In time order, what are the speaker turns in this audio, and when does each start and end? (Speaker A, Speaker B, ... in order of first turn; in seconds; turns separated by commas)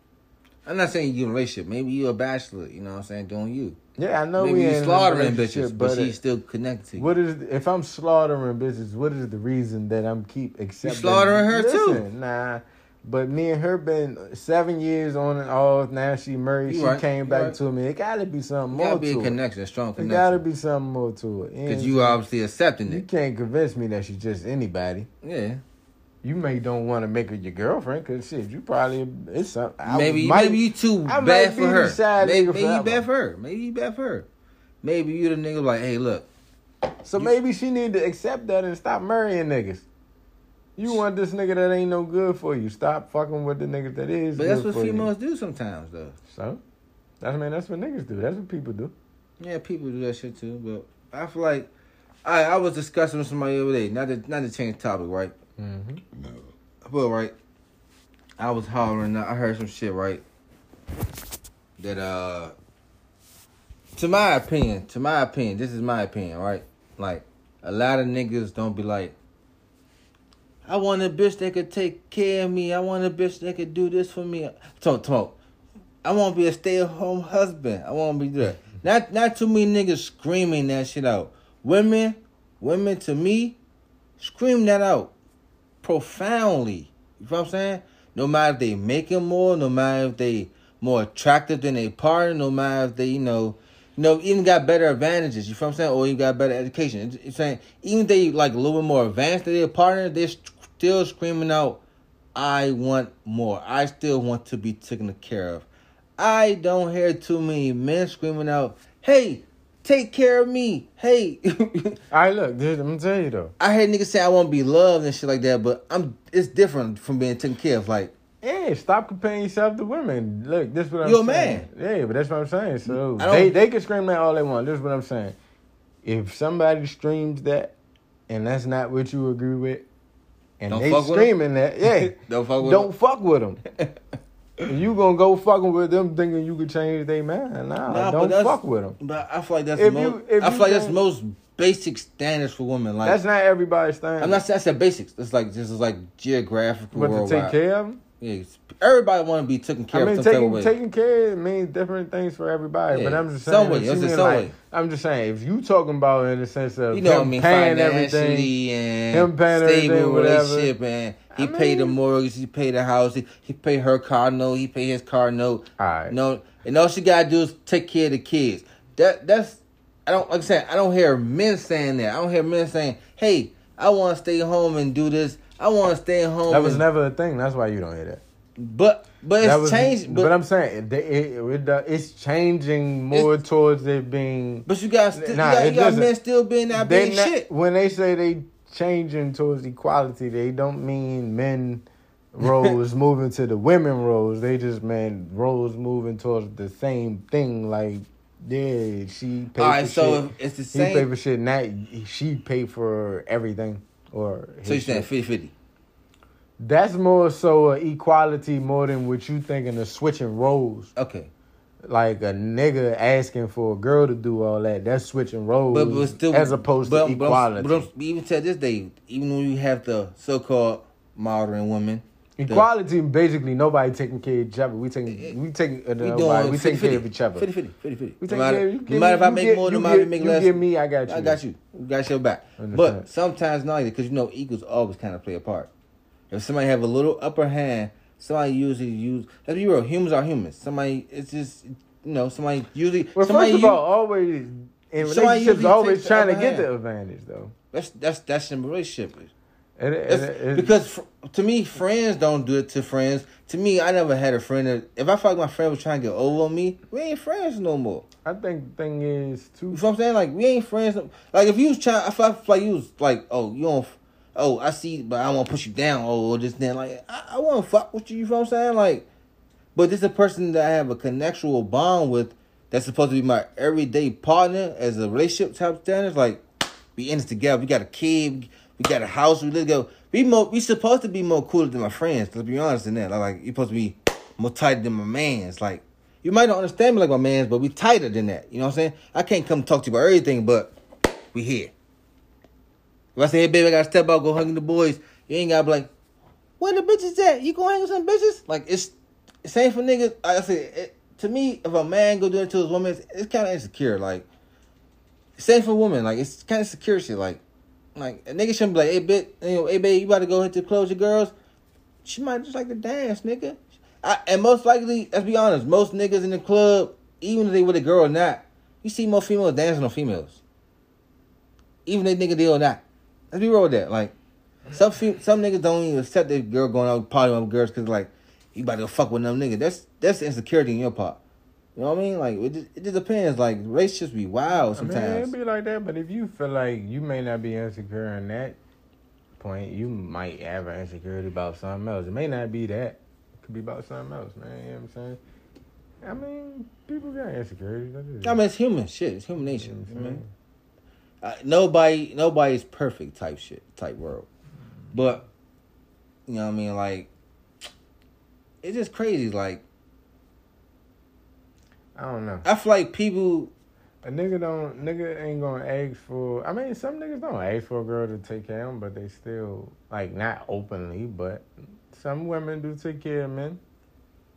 Speaker A: 0.6-3.8, Speaker B: 4.0-6.2, Speaker A: 4.4-7.1, Speaker B: 7.0-19.4, Speaker A: 10.8-12.0, Speaker A: 16.7-17.6, Speaker A: 18.7-20.4, Speaker B: 20.0-22.2, Speaker A: 21.7-23.0, Speaker B: 22.9-25.1, Speaker A: 25.2-25.6, Speaker B: 26.2-33.0, Speaker A: 29.9-34.3, Speaker A: 34.8-36.3, Speaker B: 37.0-39.9, Speaker B: 40.8-45.1, Speaker A: 44.4-46.2, Speaker B: 46.3-46.6, Speaker B: 47.2-48.9, Speaker A: 49.4-51.7, Speaker A: 52.2-55.3, Speaker B: 55.6-56.0, Speaker A: 56.8-57.3, Speaker A: 58.4-60.2, Speaker A: 61.8-62.5, Speaker A: 63.9-69.2, Speaker A: 70.6-75.3, Speaker A: 76.0-83.6, Speaker A: 84.2-85.1, Speaker A: 85.8-101.8, Speaker A: 102.3-105.7, Speaker A: 106.2-112.0, Speaker B: 112.1-113.5, Speaker A: 113.6-118.1, Speaker B: 118.4-125.3, Speaker A: 121.0-121.7, Speaker A: 122.9-123.5, Speaker B: 126.0-127.7, Speaker B: 128.3-129.8, Speaker B: 130.6-133.6, Speaker A: 130.7-131.3, Speaker A: 131.9-132.9, Speaker B: 134.6-139.0, Speaker A: 137.9-143.2, Speaker B: 139.8-141.0, Speaker B: 143.0-144.4, Speaker A: 144.2-147.6, Speaker B: 146.9-148.0, Speaker A: 148.2-150.7, Speaker B: 149.9-158.5, Speaker A: 152.9-154.5, Speaker A: 156.9-176.8, Speaker B: 159.1-160.7, Speaker B: 161.3-161.9, Speaker B: 165.8-166.2, Speaker B: 176.5-178.2, Speaker A: 178.6-180.3, Speaker B: 179.4-186.1, Speaker A: 184.7-187.4, Speaker B: 186.7-205.1, Speaker A: 192.4-192.7, Speaker A: 199.6-201.1, Speaker A: 204.6-205.5, Speaker B: 206.6-210.9, Speaker A: 210.9-211.3, Speaker B: 211.8-217.9, Speaker A: 215.7-222.7, Speaker B: 222.4-227.5, Speaker A: 225.1-225.3, Speaker A: 226.0-235.7, Speaker B: 228.2-231.4, Speaker B: 232.6-233.1, Speaker A: 236.3-243.8, Speaker B: 243.2-247.5, Speaker A: 245.0-246.7, Speaker A: 247.7-249.3, Speaker B: 249.8-250.7, Speaker A: 250.1-258.1, Speaker B: 258.2-259.8, Speaker A: 259.7-269.1, Speaker A: 269.7-276.4, Speaker A: 276.9-290.7, Speaker A: 291.3-291.7, Speaker A: 293.1-295.9, Speaker A: 296.6-304.2, Speaker A: 305.4-307.4, Speaker A: 307.9-311.3, Speaker A: 312.0-320.4, Speaker A: 321.9-324.1, Speaker A: 324.7-331.2, Speaker A: 331.8-335.3, Speaker B: 334.7-338.6, Speaker B: 339.4-345.2, Speaker B: 346.0-348.4, Speaker A: 348.2-350.2, Speaker B: 349.5-350.3, Speaker A: 351.2-354.3, Speaker A: 354.9-355.2, Speaker A: 356.3-357.1, Speaker A: 358.6-359.6, Speaker B: 361.9-362.4, Speaker A: 362.4-363.5, Speaker B: 364.0-373.6